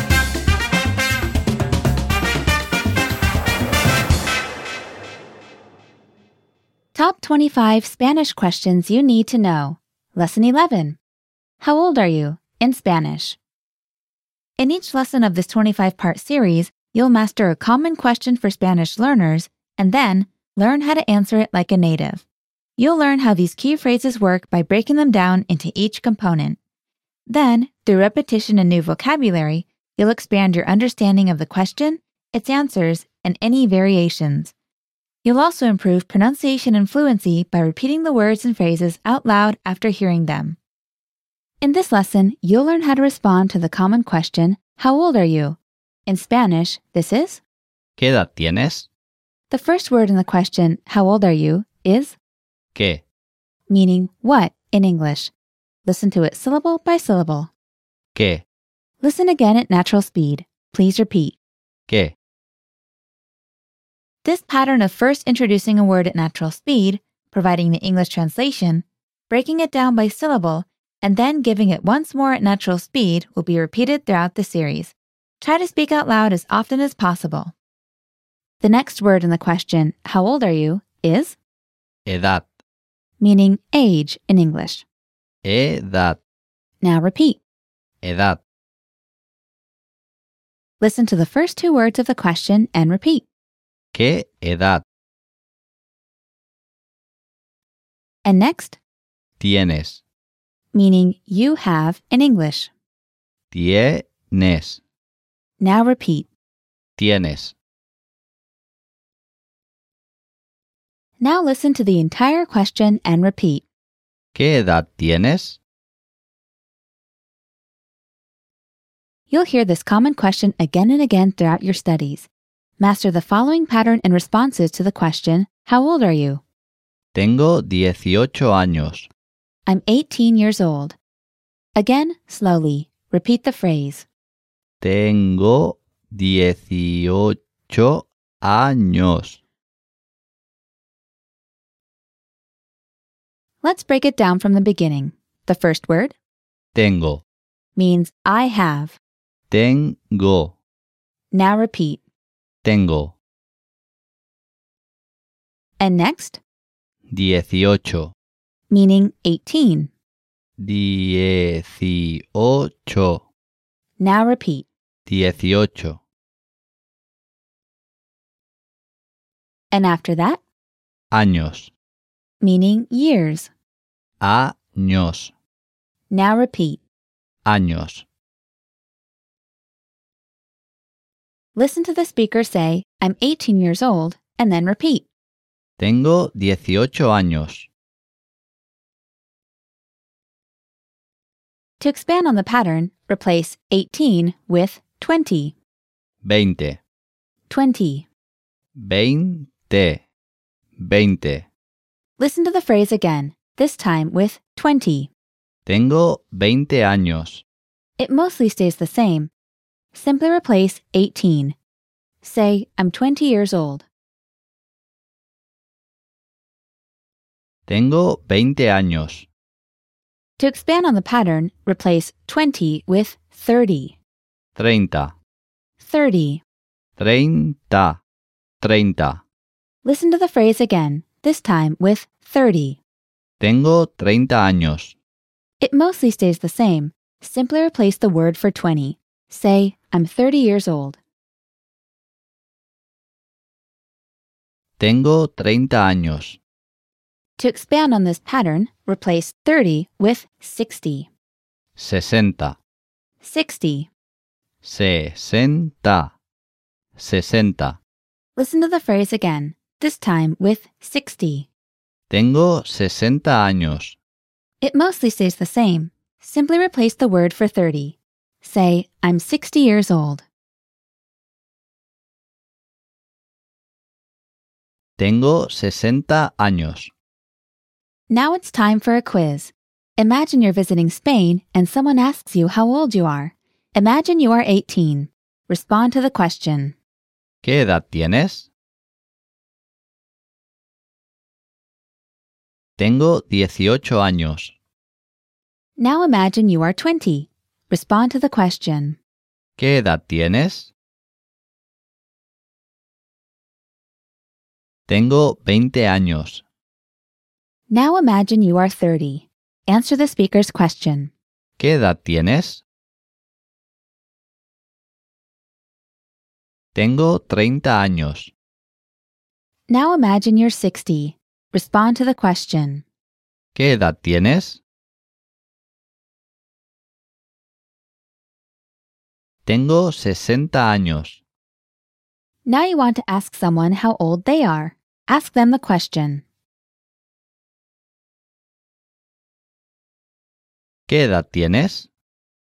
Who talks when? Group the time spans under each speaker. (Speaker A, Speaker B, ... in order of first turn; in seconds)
Speaker A: 6.9-11.0, 11.6-13.4, 14.6-22.2, 22.8-26.6, 27.3-34.5, 35.2-40.6, 41.6-47.4, 49.5-52.2, 53.7-55.3, 55.8-57.5, 59.0-61.4, 64.2-77.5, 78.6-81.4, 83.2-84.9, 86.8-87.4, 90.8-93.3, 98.2-98.8, 100.7-102.7, 105.6-106.3, 111.2-113.7, 119.3-126.4, 129.7-131.0, 131.8-134.1, 143.6-146.2, 147.8-149.0, 151.3-152.0, 155.8-156.4, 158.7-159.9, 164.0-164.7, 169.7-170.4, 172.4-173.5, 176.1-176.8, 181.5-185.1, 191.8-195.6, 197.5-198.1, 202.2-205.1, 208.0-209.3, 209.9-211.6, 212.2-213.9, 220.4-224.0, 225.8-226.4, 229.8-232.8, 235.6-241.0, 247.4-251.1, 253.2-253.9, 258.4-261.5, 264.6-270.2, 278.1-286.8, 295.8-299.0, 307.7-311.1, 319.7-322.9, 332.5-336.2
Speaker B: 48.0-48.9, 52.8-53.0, 58.1-58.4, 61.9-62.1, 82.1-82.5, 85.4-86.2, 88.0-88.4, 93.9-94.8, 99.4-100.0, 103.5-104.8, 107.0-107.5, 114.3-115.6, 127.1-129.1, 134.8-139.4, 146.7-147.2, 149.5-150.6, 152.6-153.1, 157.1-158.1, 160.6-163.2, 165.1-166.0, 171.1-171.7, 174.2-175.3, 177.4-178.1, 185.8-187.7, 196.2-196.8, 198.8-200.0, 200.8-201.5, 205.7-207.4, 217.7-219.3, 224.6-225.2, 227.0-228.0, 228.6-229.2, 233.4-234.9, 244.8-246.4, 251.8-252.6, 254.6-256.1, 257.0-257.8, 262.1-264.0, 275.0-276.9, 287.4-288.5, 292.8-294.5, 299.6-300.7, 304.9-306.4, 311.6-312.6, 316.8-318.3, 323.6-324.6, 329.5-331.2, 340.9-341.9